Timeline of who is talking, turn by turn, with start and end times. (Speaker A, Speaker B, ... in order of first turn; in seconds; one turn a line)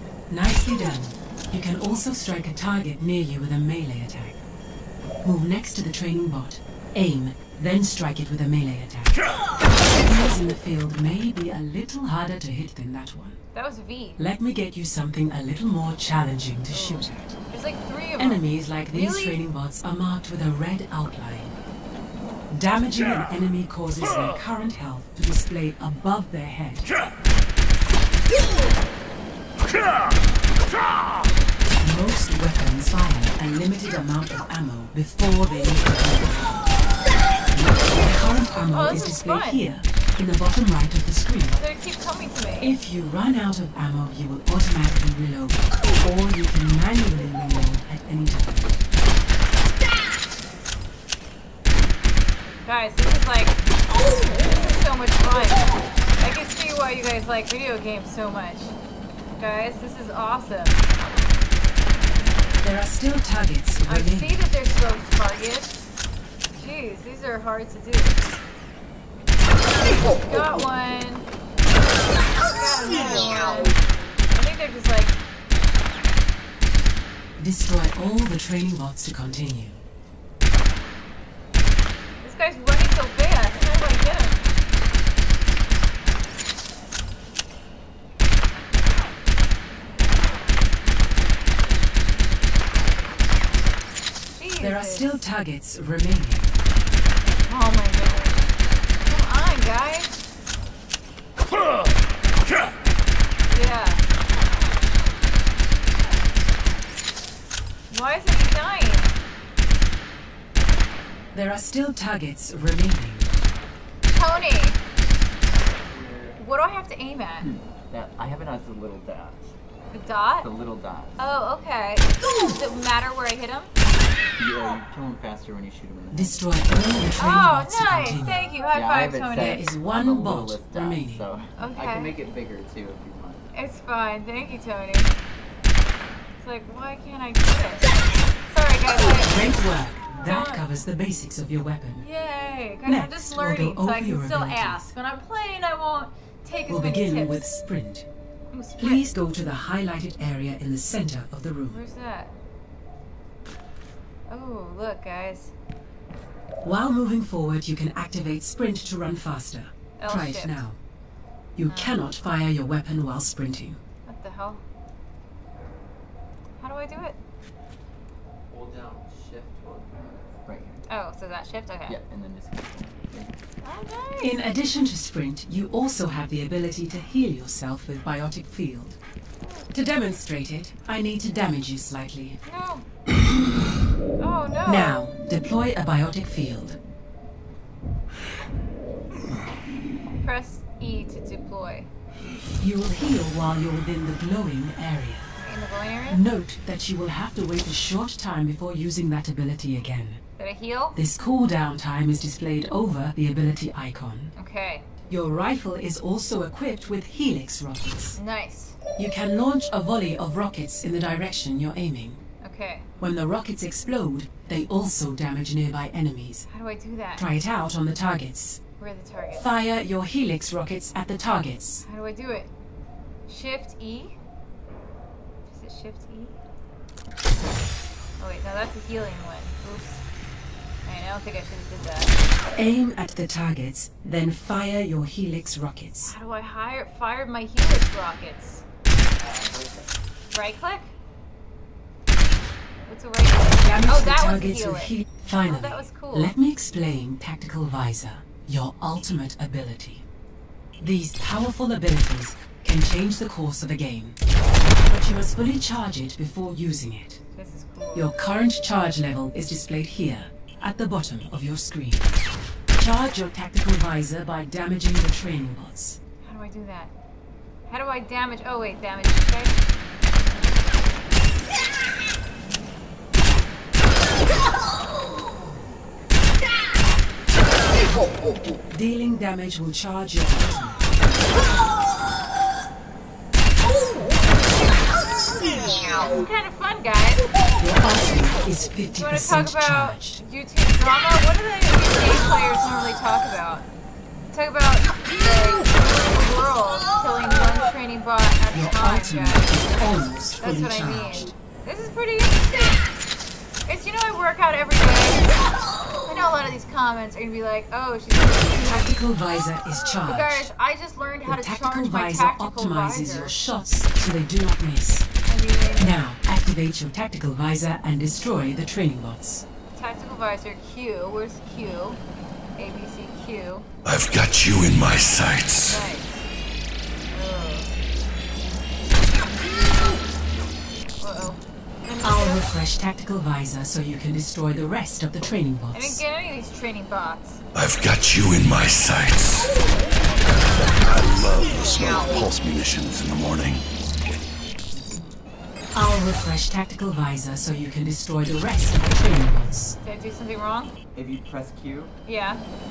Speaker A: 0.3-4.4
Speaker A: 5.2-13.4
Speaker B: 13.5-14.2
Speaker A: 14.2-17.3
Speaker B: 16.7-19.4
Speaker A: 18.2-21.6
Speaker A: 22.5-26.9
Speaker A: 31.8-36.5
Speaker A: 37.5-41.6
Speaker B: 38.7-39.6
Speaker B: 41.5-42.7
Speaker A: 42.6-48.7
Speaker B: 52.6-58.8
Speaker B: 59.4-60.8
Speaker A: 62.6-64.4
Speaker B: 63.9-65.8
Speaker B: 66.5-68.2
Speaker B: 69.8-71.3
Speaker B: 72.5-73.8
Speaker B: 74.3-75.2
Speaker A: 77.4-79.8
Speaker B: 82.2-84.5
Speaker B: 94.3-95.1
Speaker A: 94.6-96.6
Speaker B: 97.4-98.5
Speaker B: 99.0-100.2
Speaker B: 103.5-104.0
Speaker B: 107.9-109.2
Speaker A: 111.3-113.3
Speaker B: 114.0-114.8
Speaker C: 115.9-116.3
Speaker B: 116.3-117.5
Speaker C: 117.4-119.5
Speaker B: 119.9-120.5
Speaker C: 120.4-121.2
Speaker B: 121.2-123.7
Speaker C: 124.4-126.5
Speaker A: 126.1-128.4
Speaker B: 127.2-129.7
Speaker C: 128.6-133.5
Speaker A: 129.3-131.2
Speaker B: 131.6-132.1
Speaker B: 133.5-135.1
Speaker B: 136.4-137.9
Speaker B: 138.5-139.4
Speaker A: 139.1-142.0
Speaker B: 140.2-140.7
Speaker B: 142.0-147.4
Speaker A: 142.8-144.9
Speaker A: 146.7-148.1
Speaker B: 148.5-149.1
Speaker A: 148.8-151.8
Speaker B: 151.7-152.3
Speaker B: 154.3-155.5
Speaker A: 156.6-160.8
Speaker B: 160.0-160.6
Speaker A: 161.6-163.8
Speaker B: 161.7-162.0
Speaker B: 164.1-164.6
Speaker B: 166.6-167.2
Speaker C: 168.5-170.8
Speaker B: 170.9-172.0
Speaker C: 171.9-173.4
Speaker B: 173.6-174.3
Speaker A: 174.2-179.0
Speaker A: 179.7-182.4
Speaker B: 182.4-182.8
Speaker B: 184.2-185.0
Speaker A: 184.7-186.8
Speaker B: 190.1-191.9
Speaker A: 192.6-195.3
Speaker B: 195.4-196.2
Speaker A: 196.1-200.2
Speaker B: 200.4-201.0
Speaker A: 200.9-204.3
Speaker B: 204.3-204.9
Speaker A: 205.1-208.2
Speaker B: 208.2-208.8
Speaker A: 209.0-212.2
Speaker B: 212.4-212.9
Speaker A: 213.0-216.5
Speaker B: 216.5-217.3
Speaker A: 217.2-218.6
Speaker B: 218.8-219.5
Speaker A: 219.3-221.8
Speaker B: 221.8-222.5
Speaker B: 223.3-224.2
Speaker B: 225.5-226.4
Speaker B: 228.2-230.0
Speaker B: 230.8-232.1
Speaker A: 232.6-236.1
Speaker B: 236.0-238.6
Speaker C: 239.2-239.8
Speaker B: 240.3-240.9
Speaker B: 242.9-246.3
Speaker A: 243.6-250.0
Speaker A: 250.8-254.2
Speaker A: 254.8-257.2
Speaker B: 257.3-258.1
Speaker A: 257.9-262.1
Speaker A: 262.8-266.0
Speaker B: 266.2-266.9
Speaker B: 267.7-269.7
Speaker A: 278.7-280.9
Speaker B: 285.7-287.2
Speaker A: 287.6-290.2
Speaker B: 288.9-293.7
Speaker B: 294.3-299.6
Speaker A: 298.5-301.3
Speaker B: 300.4-302.8
Speaker B: 303.6-305.2
Speaker B: 306.0-309.0
Speaker A: 308.6-310.4
Speaker B: 310.0-313.4
Speaker A: 311.2-315.1
Speaker B: 315.2-316.0
Speaker A: 315.8-319.4
Speaker B: 319.7-322.0
Speaker B: 322.6-323.7
Speaker D: 323.8-325.8
Speaker B: 325.6-326.2
Speaker B: 327.1-327.7
Speaker B: 331.0-332.4
Speaker A: 332.0-336.0
Speaker B: 335.7-337.4
Speaker D: 337.5-339.5
Speaker C: 339.8-340.8
Speaker D: 340.8-343.6
Speaker A: 345.7-349.8
Speaker B: 349.8-350.7
Speaker C: 350.9-351.9
Speaker B: 352.1-352.4